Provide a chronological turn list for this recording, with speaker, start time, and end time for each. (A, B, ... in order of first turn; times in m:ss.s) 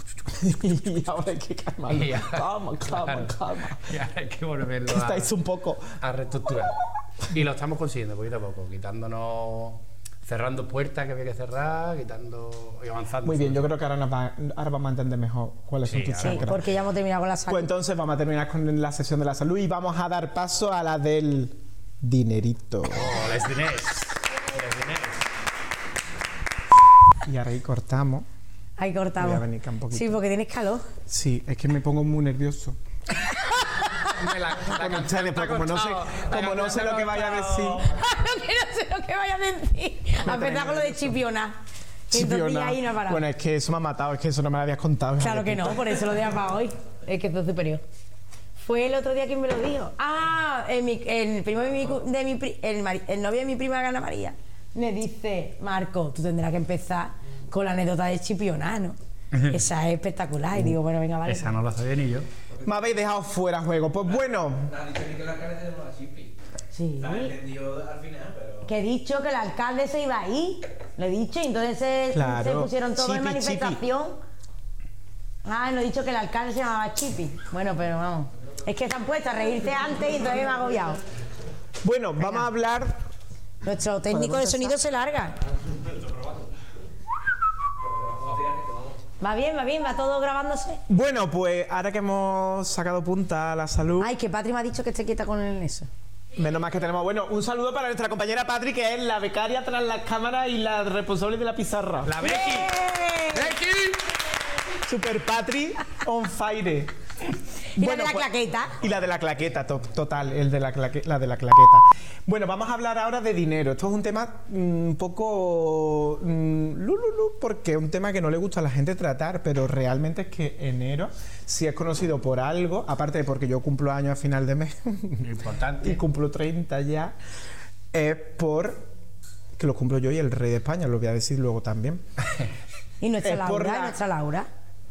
0:00.3-0:03.8 A
0:01.9-0:05.3 B
0:04.9-0:06.0 A
0:06.0-0:13.7 B
0:13.2-0:16.6 A
0:15.9-0:16.6 B
0:16.2-0:17.7 C
0:17.5-0:23.2 A
0:22.9-0:25.2 B
0:27.2-0:28.3 A
0:28.8-0:30.8 C
0:29.2-0:30.2 A
0:31.1-0:32.8 A
0:34.0-0:37.8 B
0:34.6-0:37.8 A
0:37.8-0:41.6 C
0:40.3-0:41.0 B
0:42.1-0:43.2 C
0:42.1-0:46.2 A
0:45.2-0:47.8 C
0:48.6-0:59.0 C
0:59.3-0:59.6 B
0:59.5-1:01.6 C
1:01.3-1:02.3 B
1:02.6-1:04.7 A
1:04.6-1:06.3 D
1:06.7-1:07.4 C
1:07.0-1:08.7 D
1:08.6-1:14.2 C
1:12.1-1:13.8 A
1:15.4-1:21.0 C
1:21.8-1:23.0 A
1:23.6-1:25.4 C
1:24.1-1:24.8 A
1:25.6-1:26.5 D
1:27.8-1:29.0 D
1:29.2-1:30.8 C
1:30.9-1:34.1 A
1:34.0-1:35.9 C
1:36.4-1:42.1 A
1:42.0-1:44.0 B
1:42.2-1:43.6 C
1:44.9-1:46.9 A
1:47.8-1:48.8 C
1:47.8-2:05.3 A
2:05.2-2:06.0 B
2:05.8-2:07.2 A
2:07.9-2:08.8 A
2:09.6-2:12.0 A
2:13.0-2:14.5 C
2:13.2-2:14.0 A